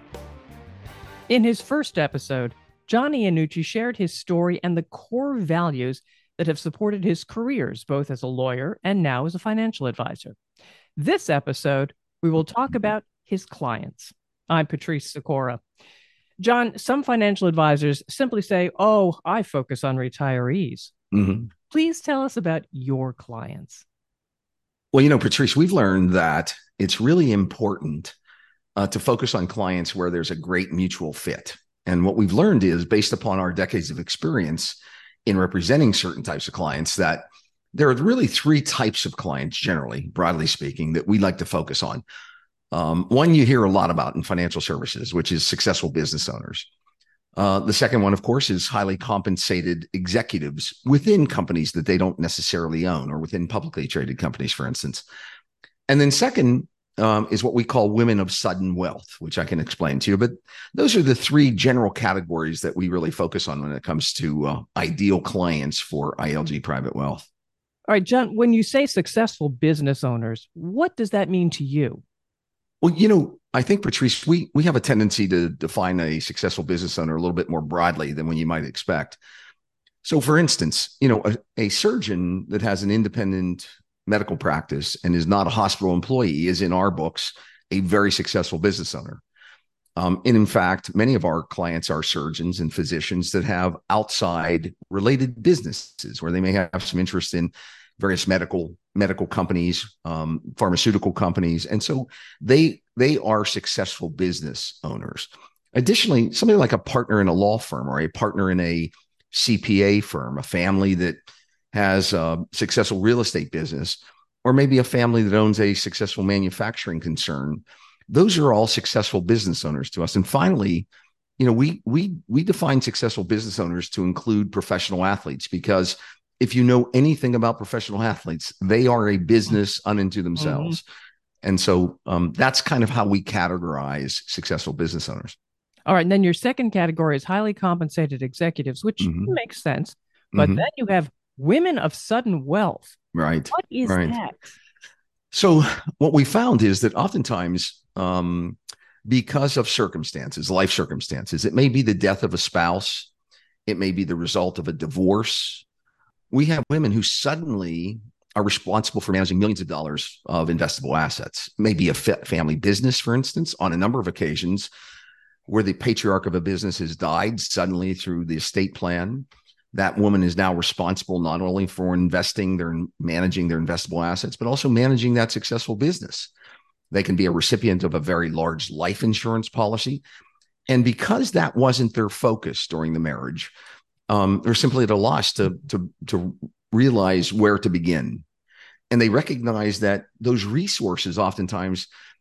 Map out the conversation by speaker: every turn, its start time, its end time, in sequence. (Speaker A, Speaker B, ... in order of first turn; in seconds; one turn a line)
Speaker A: 1.3-10.3
Speaker A: 10.9-15.6
Speaker A: 16.4-20.9
Speaker B: 21.1-21.5
Speaker A: 21.7-23.8
Speaker B: 24.9-28.1
Speaker B: 28.8-37.2
Speaker B: 37.7-42.0
Speaker B: 42.7-46.7
Speaker B: 47.4-55.0
Speaker B: 55.9-67.2
Speaker A: 67.9-72.0
Speaker B: 72.8-79.2
Speaker B: 80.0-89.2
Speaker B: 90.0-111.2
Speaker B: 111.7-120.9
Speaker B: 121.4-130.8
Speaker A: 130.4-130.8
Speaker B: 131.4-135.3
Speaker A: 135.9-143.0
Speaker B: 139.0-139.3
Speaker B: 140.3-140.6
Speaker B: 143.1-144.2
Speaker A: 143.5-144.5
Speaker B: 145.3-153.1
Speaker B: 153.7-155.6
Speaker B: 156.3-164.7
Speaker B: 165.5-176.3
Speaker B: 176.9-180.0
Speaker B: 180.7-183.5
Speaker B: 184.1-188.2
Speaker B: 188.9-191.9